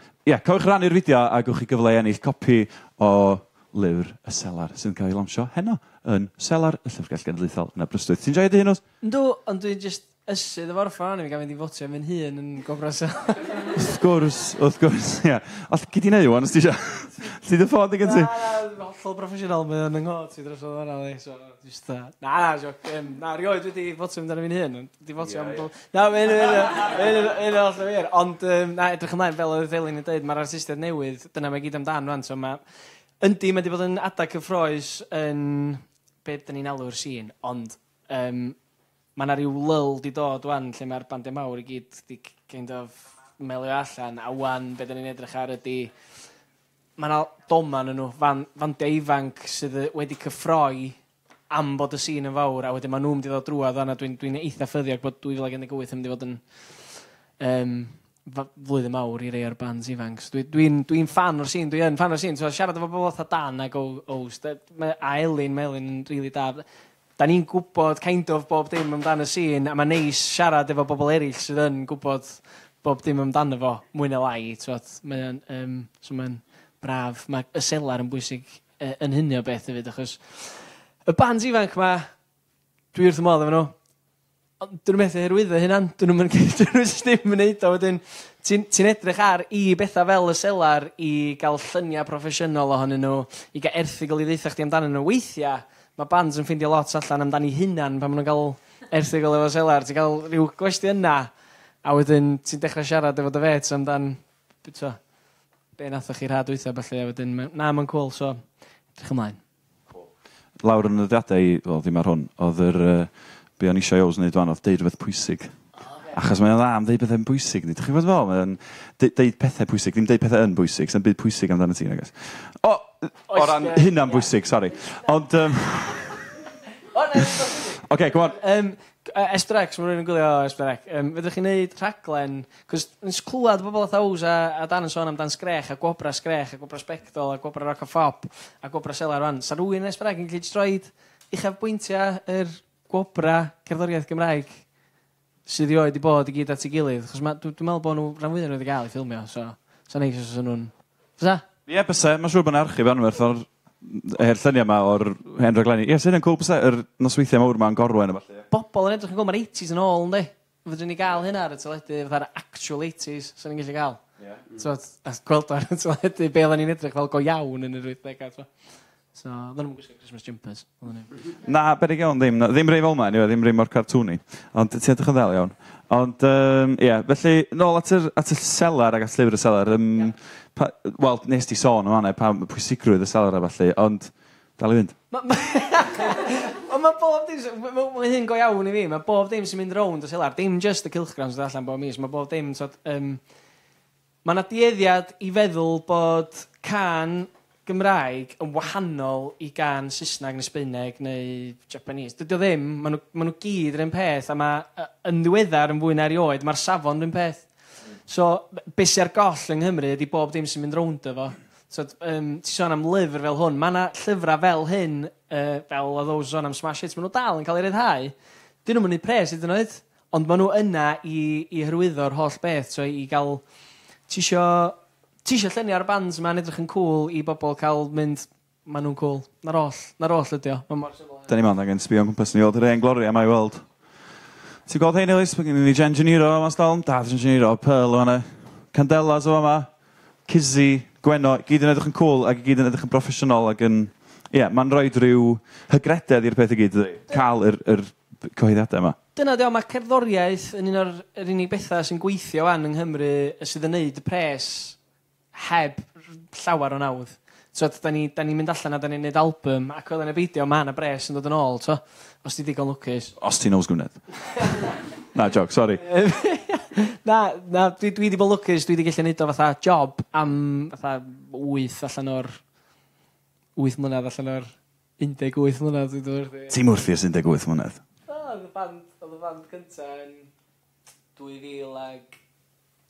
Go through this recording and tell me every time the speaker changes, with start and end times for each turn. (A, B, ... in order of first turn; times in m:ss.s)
0:00.2-0:08.8 A
0:09.0-0:13.8 B
0:13.7-0:18.3 A
0:18.0-0:32.6 B
0:25.2-0:25.6 A
0:33.2-0:38.6 B
0:39.2-0:45.9 B
0:47.0-0:51.0 B
0:51.5-1:06.6 B
1:07.2-1:22.1 B
1:22.9-1:23.7 B
1:24.6-1:41.3 B
1:41.8-1:45.0 B
1:45.8-1:48.4 B
1:48.9-1:49.4 B
1:50.6-1:55.6 A
1:56.1-2:06.2 A
2:03.3-2:04.3 B
2:06.9-2:24.6 B
2:07.8-2:08.4 A
2:25.4-2:31.4 B
2:31.7-2:38.4 A
2:38.5-2:44.0 B
2:44.5-2:48.5 B
2:49.1-2:51.1 B
2:51.4-3:05.0 A
3:05.1-3:13.2 B
3:14.2-3:27.5 B
3:28.1-3:38.1 B
3:38.6-3:43.4 B
3:44.1-3:51.3 B
3:51.3-3:53.6 A
3:54.7-3:59.7 A
4:00.3-4:09.0 A
4:09.1-4:14.8 B
4:15.3-4:23.1 B
4:23.2-4:24.0 A
4:25.1-4:25.8 A
4:25.8-4:32.4 B
4:33.6-4:36.6 B
4:36.5-4:37.8 A
4:38.1-4:40.3 B
4:41.2-4:42.2 B